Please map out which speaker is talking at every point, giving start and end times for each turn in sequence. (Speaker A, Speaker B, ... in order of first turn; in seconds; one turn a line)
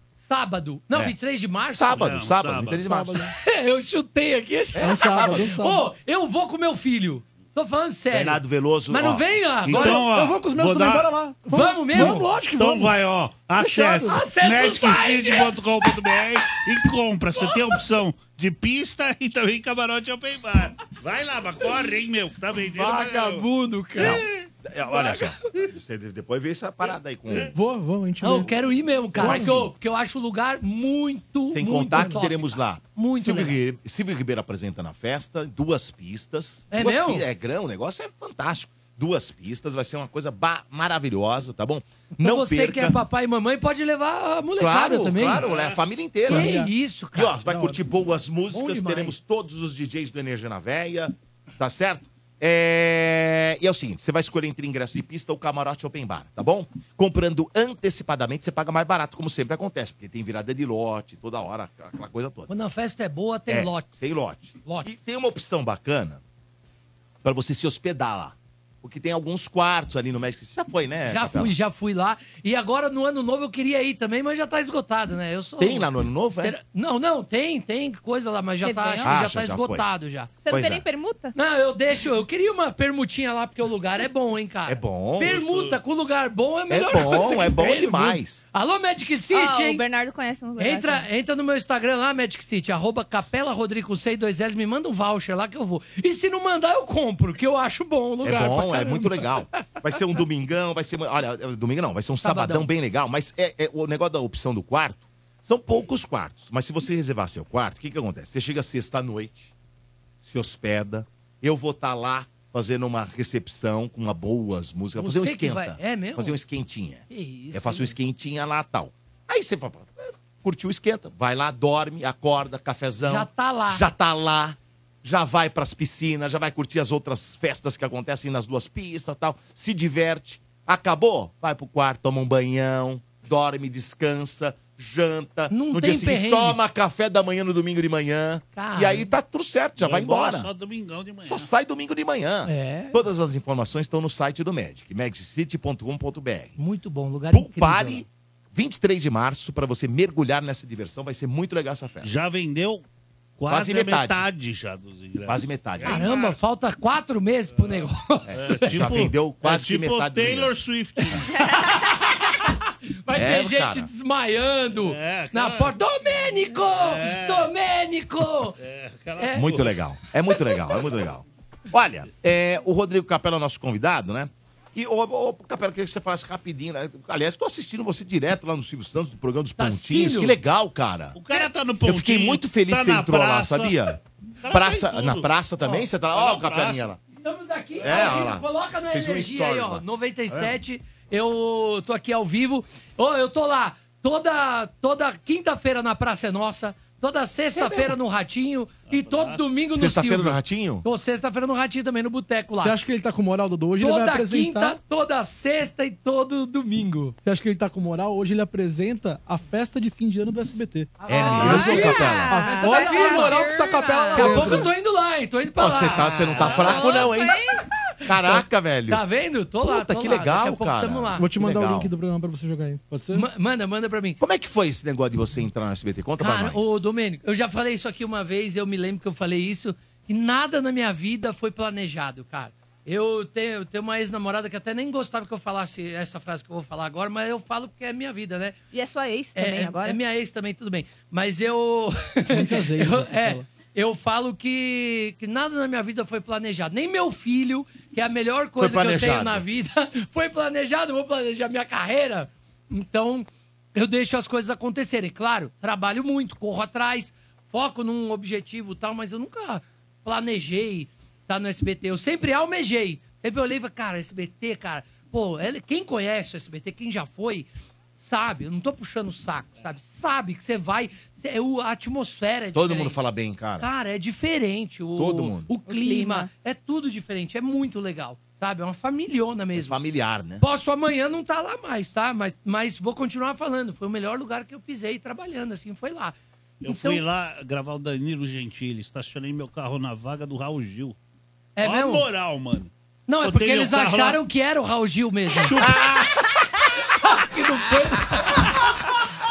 Speaker A: 0.2-2.1
Speaker B: 1.8-3.3
Speaker C: 1.9-2.9
Speaker D: 2.9-3.3
Speaker A: 3.3-10.1
Speaker B: 4.8-5.5
Speaker D: 4.8-5.9
Speaker B: 8.1-9.3
Speaker C: 9.7-11.1
Speaker D: 9.7-12.9
Speaker A: 11.5-12.3
Speaker C: 11.9-23.5
Speaker D: 13.6-14.2
Speaker A: 14.1-15.5
Speaker A: 22.7-24.3
Speaker B: 24.0-27.6
Speaker C: 24.0-24.3
Speaker A: 24.8-25.5
Speaker D: 27.5-29.7
Speaker A: 28.2-33.6
Speaker B: 29.1-29.7
Speaker B: 31.5-43.0
Speaker A: 36.7-37.3
Speaker A: 42.1-45.5
Speaker B: 44.6-46.6
Speaker C: 45.3-45.8
Speaker A: 46.3-47.4
Speaker D: 46.3-46.7
Speaker B: 47.1-62.5
Speaker D: 47.4-47.8
Speaker A: 48.5-49.2
Speaker A: 62.5-64.9
Speaker B: 63.5-66.2
Speaker B: 67.2-71.5
Speaker A: 71.0-80.5
Speaker B: 75.6-76.6
Speaker E: 78.6-79.2
Speaker B: 79.0-79.9
Speaker E: 80.5-81.4
Speaker B: 80.5-80.8
Speaker A: 81.3-89.8
Speaker B: 84.7-85.3
Speaker C: 85.2-85.8
Speaker B: 86.7-88.5
Speaker E: 89.3-91.1
Speaker A: 90.6-99.8
Speaker B: 98.2-109.5
Speaker A: 102.2-102.7
Speaker B: 110.2-140.5
Speaker A: 115.0-116.4
Speaker A: 117.1-118.0
Speaker A: 123.1-123.9
Speaker A: 135.5-136.6
Speaker A: 138.5-139.1
Speaker C: 139.8-141.5
Speaker B: 141.2-146.6
Speaker A: 142.4-142.9
Speaker A: 146.6-148.1
Speaker B: 147.3-152.1
Speaker C: 152.0-152.8
Speaker C: 153.4-156.4
Speaker B: 153.5-154.2
Speaker B: 155.3-156.1
Speaker A: 155.9-158.9
Speaker C: 157.5-161.3
Speaker B: 158.3-160.5
Speaker A: 161.1-168.6
Speaker B: 163.1-163.9
Speaker C: 164.7-167.5
Speaker C: 168.6-169.7
Speaker A: 169.2-169.4
Speaker B: 169.4-181.2
Speaker A: 179.6-180.4
Speaker C: 181.2-183.8
Speaker B: 181.8-184.0
Speaker C: 184.4-185.3
Speaker B: 184.5-187.0
Speaker C: 186.1-186.9
Speaker A: 187.1-202.7
Speaker B: 187.8-189.8
Speaker C: 187.8-188.2
Speaker C: 190.3-190.6
Speaker C: 198.9-199.5
Speaker B: 199.7-200.8
Speaker D: 202.6-204.8
Speaker A: 203.8-207.2
Speaker D: 207.2-214.7
Speaker A: 211.0-213.5
Speaker B: 211.1-212.4
Speaker E: 211.2-214.4
Speaker A: 214.1-217.2
Speaker B: 215.6-217.4
Speaker C: 216.1-216.9
Speaker E: 216.6-217.6
Speaker A: 218.1-221.3
Speaker B: 218.1-219.1
Speaker B: 219.6-221.9
Speaker D: 221.2-223.3
Speaker A: 223.1-224.2
Speaker B: 224.2-226.8
Speaker A: 226.2-238.6
Speaker E: 238.7-240.0
Speaker A: 239.4-273.0
Speaker D: 242.3-243.4
Speaker B: 248.6-249.4
Speaker B: 272.5-273.7
Speaker A: 273.6-279.8
Speaker B: 275.0-275.5
Speaker E: 275.7-276.3
Speaker B: 279.6-280.4
Speaker A: 280.4-287.0
Speaker C: 286.6-290.9
Speaker A: 291.6-292.1
Speaker C: 291.6-292.7
Speaker A: 293.1-295.8
Speaker C: 293.2-294.2
Speaker C: 295.4-296.1
Speaker A: 296.9-298.7